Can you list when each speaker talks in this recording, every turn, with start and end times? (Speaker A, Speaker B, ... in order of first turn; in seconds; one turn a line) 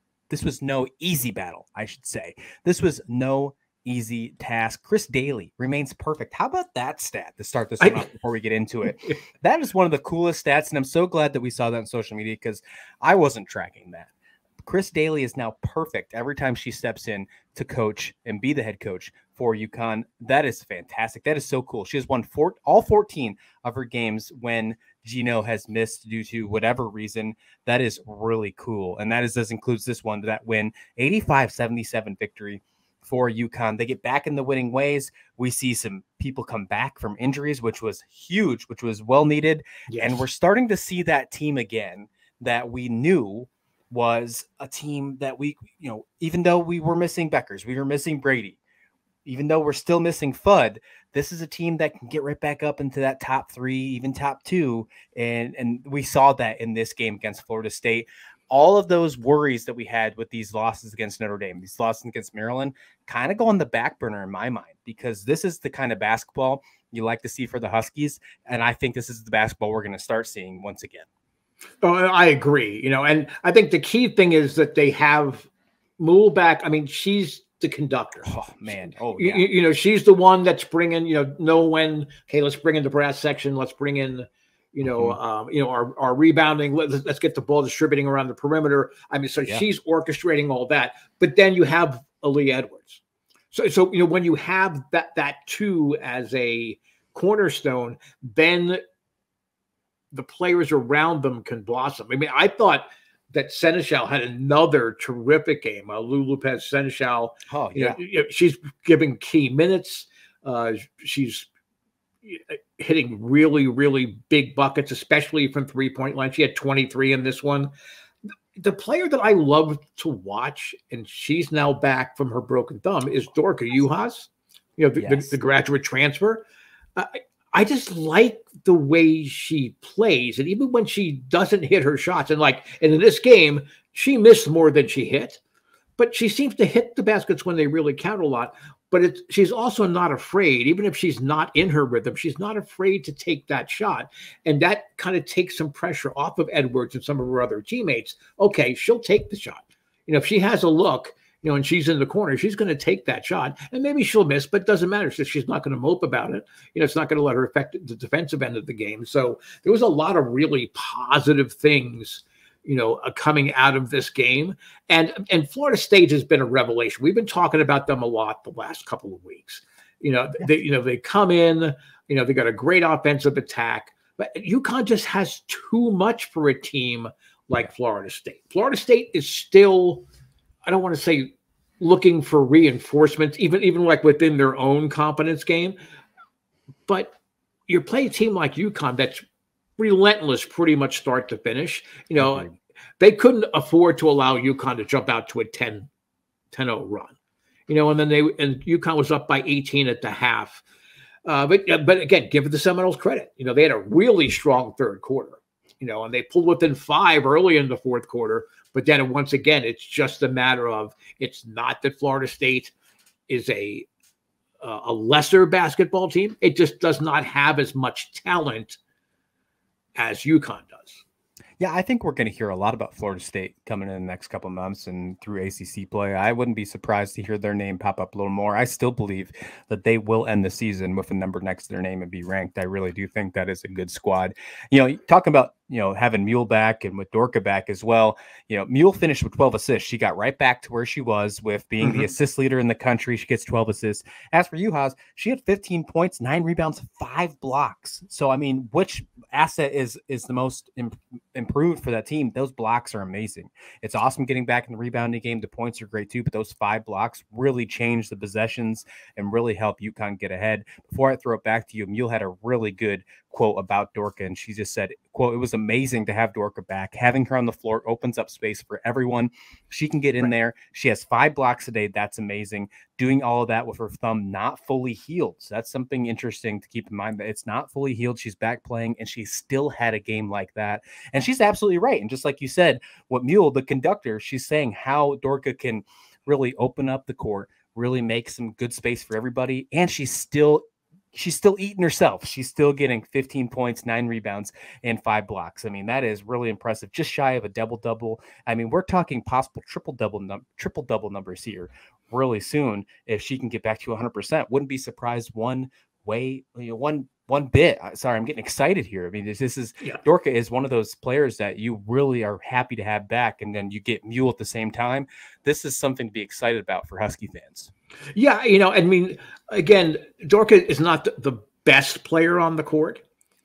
Speaker A: 0.3-14.1
Speaker B: 7.8-8.1
Speaker A: 14.6-48.6
Speaker B: 39.9-40.2
Speaker A: 49.2-71.1
Speaker B: 71.8-93.0
Speaker A: 78.2-79.5
Speaker A: 84.8-85.2
Speaker B: 93.5-98.8
Speaker B: 100.1-111.5
Speaker A: 107.5-108.0
Speaker B: 112.2-117.7
Speaker B: 118.6-126.4
Speaker A: 125.0-125.3
Speaker B: 127.0-135.4
Speaker B: 136.0-180.1
Speaker B: 180.7-185.8
Speaker B: 186.9-187.1
Speaker B: 187.7-189.2
Speaker B: 189.8-195.9
Speaker A: 192.2-192.5
Speaker B: 196.5-197.2
Speaker B: 197.7-200.6
Speaker B: 201.2-212.7
Speaker B: 213.3-213.9
Speaker B: 214.6-218.8
Speaker B: 220.0-221.0
Speaker A: 221.6-290.6
Speaker B: 241.8-242.1
Speaker A: 291.1-317.7
Speaker B: 318.1-323.0